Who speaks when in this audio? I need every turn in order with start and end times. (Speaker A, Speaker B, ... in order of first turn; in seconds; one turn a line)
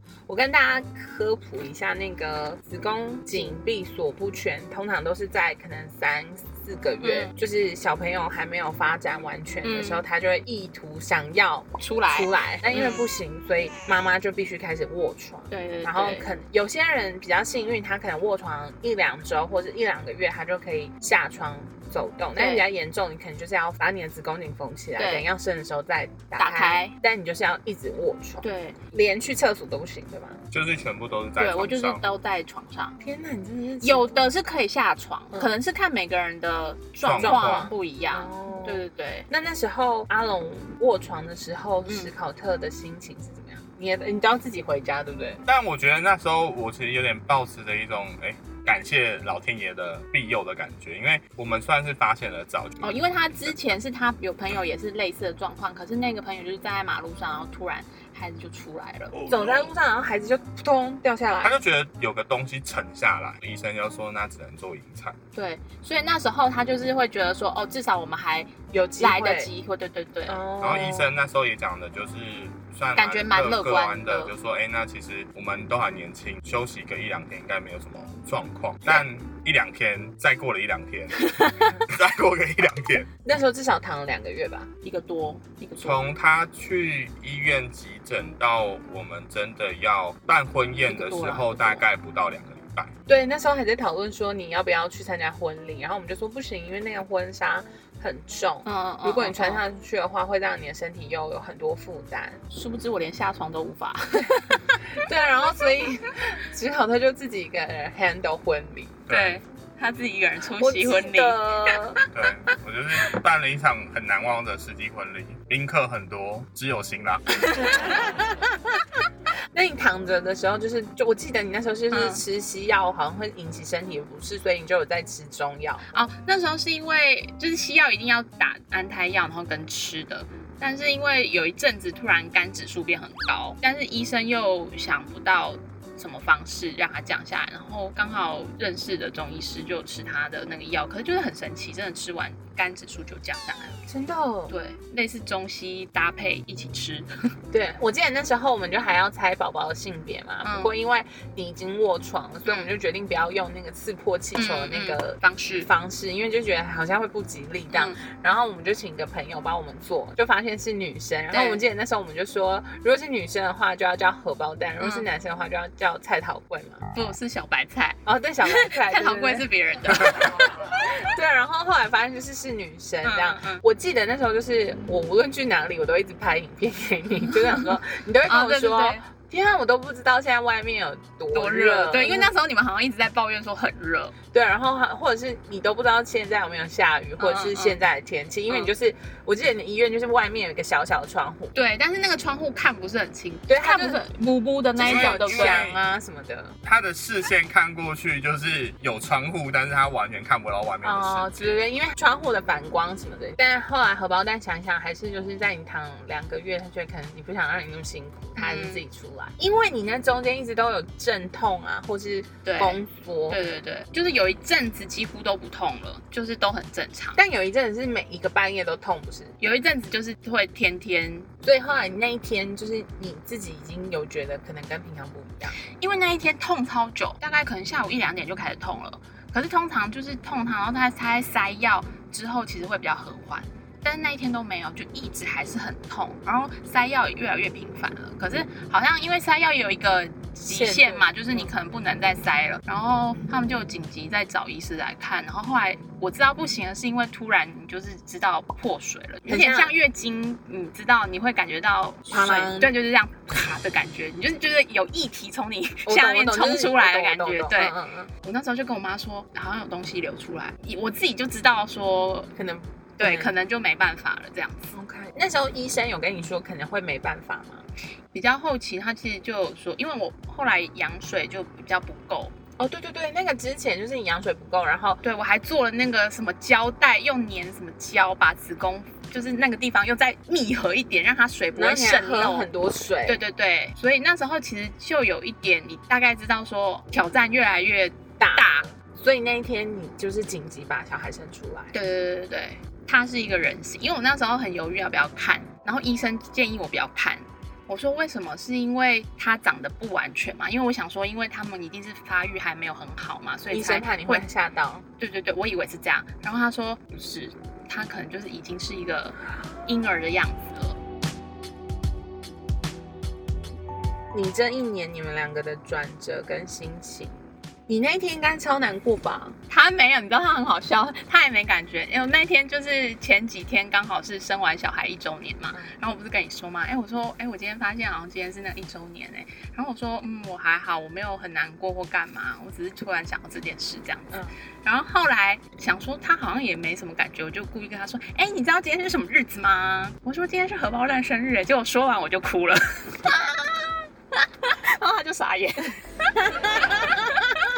Speaker A: 0.3-30.4
Speaker B: 7.0-7.3
Speaker B: 9.6-10.0
Speaker B: 11.8-13.1
Speaker B: 15.5-16.3
Speaker B: 22.4-22.6
Speaker B: 25.0-25.3
Speaker B: 26.4-26.9
Speaker B: 28.4-28.8
Speaker C: 30.5-32.0
Speaker B: 31.4-33.0
Speaker A: 33.0-34.3
Speaker B: 33.8-39.3
Speaker C: 37.0-37.7
Speaker A: 37.2-45.4
Speaker B: 41.9-42.1
Speaker C: 45.5-53.5
Speaker B: 52.8-59.2
Speaker A: 59.3-61.5
Speaker C: 61.4-65.2
Speaker B: 65.3-70.4
Speaker A: 68.7-69.5
Speaker A: 70.3-71.2
Speaker C: 70.6-83.1
Speaker B: 73.0-74.3
Speaker A: 83.2-84.7
Speaker B: 84.8-86.1
Speaker C: 85.8-92.9
Speaker B: 90.8-91.8
Speaker A: 93.1-102.4
Speaker B: 98.6-99.6
Speaker B: 102.5-104.8
Speaker A: 104.9-109.0
Speaker C: 109.1-109.4
Speaker B: 109.1-112.1
Speaker A: 110.6-112.0
Speaker C: 112.1-117.6
Speaker B: 117.5-117.9
Speaker A: 117.6-118.2
Speaker A: 119.5-125.8
Speaker B: 121.9-122.2
Speaker B: 125.9-143.8
Speaker A: 143.9-144.5
Speaker B: 144.5-147.3
Speaker A: 147.5-166.8
Speaker B: 150.4-150.7
Speaker B: 152.4-152.7
Speaker B: 154.3-155.7
Speaker B: 157.7-158.0
Speaker B: 161.3-161.7
Speaker B: 164.8-165.1
Speaker B: 166.9-170.4
Speaker A: 168.1-182.3
Speaker B: 173.0-173.6
Speaker B: 178.3-179.0
Speaker B: 181.3-184.1
Speaker A: 184.3-191.6
Speaker B: 187.2-187.8
Speaker B: 191.5-195.7
Speaker A: 193.5-194.0
Speaker A: 194.8-196.5
Speaker C: 194.8-195.8
Speaker C: 196.6-201.6
Speaker A: 200.8-213.4
Speaker B: 208.4-208.8
Speaker B: 212.4-217.2
Speaker A: 217.2-219.4
Speaker B: 219.4-221.3
Speaker A: 221.4-225.6
Speaker B: 225.7-262.3
Speaker A: 240.5-241.5
Speaker A: 249.2-249.7
Speaker A: 252.1-252.7
Speaker A: 255.8-258.1
Speaker A: 262.3-263.3
Speaker B: 263.0-264.7
Speaker A: 264.7-267.6
Speaker B: 268.1-272.3
Speaker A: 272.6-275.0
Speaker B: 275.0-282.5
Speaker A: 281.5-283.2
Speaker B: 283.1-288.7
Speaker A: 288.2-291.7
Speaker B: 291.7-304.2
Speaker A: 303.5-304.8
Speaker B: 305.0-310.8
Speaker A: 314.1-317.1
Speaker A: 317.7-319.4
Speaker B: 319.5-347.2
Speaker A: 346.3-347.0